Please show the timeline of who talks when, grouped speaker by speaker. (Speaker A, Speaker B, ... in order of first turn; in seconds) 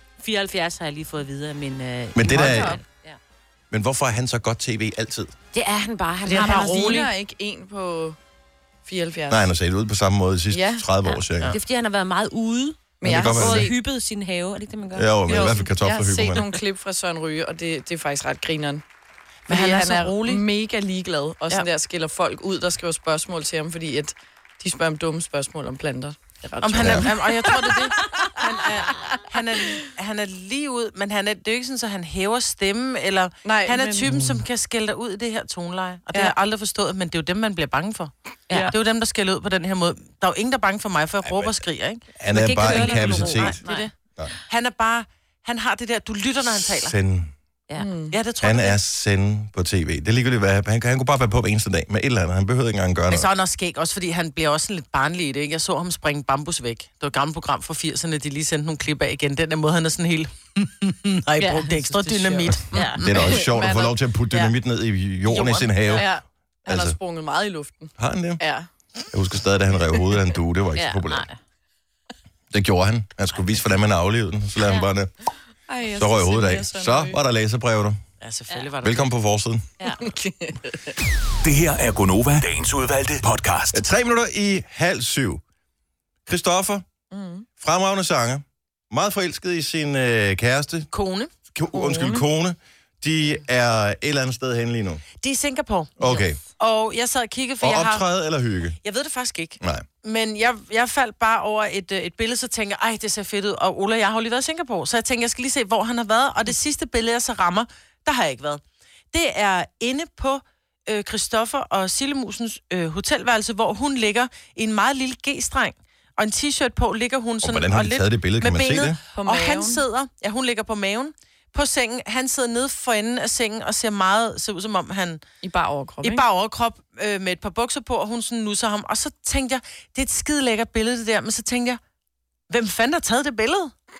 Speaker A: 0.2-3.2, 5.5-7.0, 11.0-15.6, 42.3-43.9, 62.7-63.0, 71.0-71.4, 74.6-74.9
Speaker B: 2.1-2.8, 3.7-5.3, 9.3-11.6, 13.0-13.7, 14.9-16.6, 26.7-27.1, 41.2-41.6, 42.2-43.6, 46.6-47.3, 48.4-53.3, 62.5-66.1, 66.7-67.0, 68.0-68.4, 69.1-71.2, 72.5-75.1, 76.0-78.0, 78.8-79.7, 83.7-85.4, 86.2-86.8, 87.6-90.9, 91.5-95.0, 96.0-96.4, 97.6-98.8, 99.6-99.8, 117.4-119.0
Speaker C: 2.3-2.8, 6.3-8.2, 8.8-9.5, 10.5-10.8, 13.0-13.7, 15.3-18.8, 19.5-27.8, 28.6-29.0, 33.4-34.2, 38.5-38.8, 47.8-48.1, 61.4-64.0, 65.9-68.7, 75.7-77.2, 79.8-80.9, 87.1-87.5, 91.7-92.2, 119.1-119.8, 125.4-126.2
Speaker D: 6.2-7.1, 19.5-20.4, 26.6-38.1, 38.6-43.9, 44.5-46.9, 48.1-48.8, 53.1-63.1, 65.3-66.0, 78.2-79.1, 90.9-91.3, 95.2-98.1, 98.8-108.6, 109.1-125.2, 126.0-131.8, 132.5-133.7
Speaker E: 81.4-83.8